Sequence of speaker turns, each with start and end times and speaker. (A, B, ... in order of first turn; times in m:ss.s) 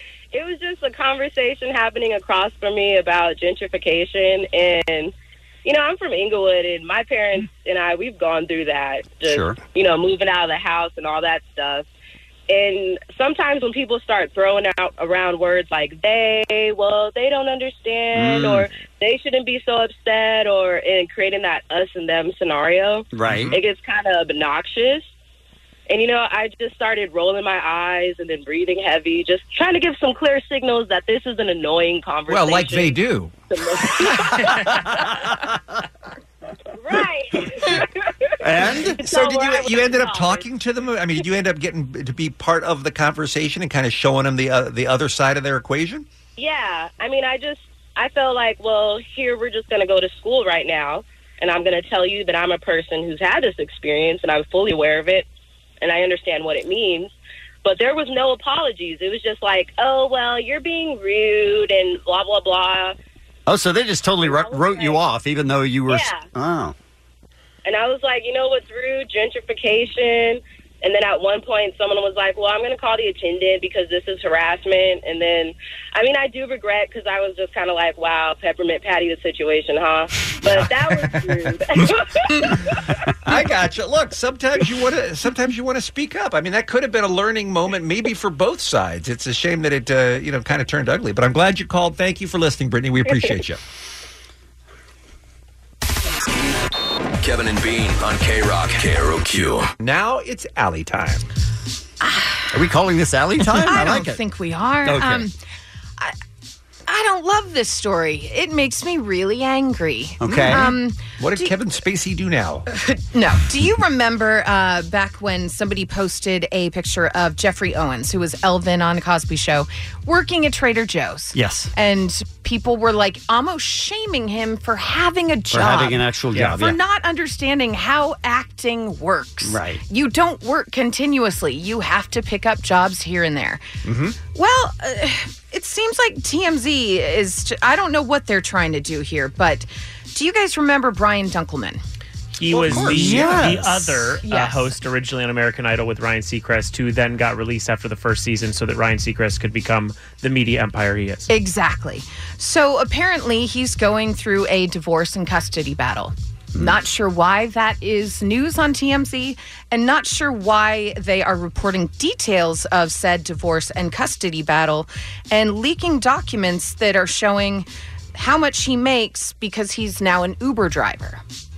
0:00.3-0:05.1 A
0:05.6-0:11.8 A
0:09.2-0:09.6 B
0:12.5-0:25.0 A
0:18.1-0:18.6 B
0:23.1-0:23.6 B
0:23.3-0:23.6 C
0:25.9-0:32.9 A
0:32.3-0:33.3 C
0:33.5-0:35.1 A
0:36.8-0:38.3 A
0:38.4-0:39.0 B
0:39.0-0:40.4 A
0:39.0-0:46.0 C
0:46.4-0:55.2 A
0:55.8-0:57.1 A
0:57.6-1:02.9 A
1:03.5-1:06.7 B
1:04.2-1:05.0 A
1:05.9-1:06.2 A
1:07.6-1:22.6 A
1:23.2-1:33.6 C
1:37.2-1:39.7 D
1:39.8-1:41.2 C
1:42.0-1:42.5 E
1:42.5-1:44.2 B
1:43.6-1:45.3 E
1:44.8-1:45.2 B
1:46.9-1:51.5 E
1:50.2-1:50.7 B
1:51.2-1:52.6 C
1:52.7-2:13.6 E
2:01.3-2:01.7 B
2:05.5-2:06.8 B
2:09.4-2:09.8 B
2:13.8-2:14.1 B
2:14.3-2:21.8 E
2:22.4-2:31.3 F
2:22.6-2:23.9 B
2:22.6-2:23.2 C
2:24.2-2:24.7 E
2:31.3-2:51.2 E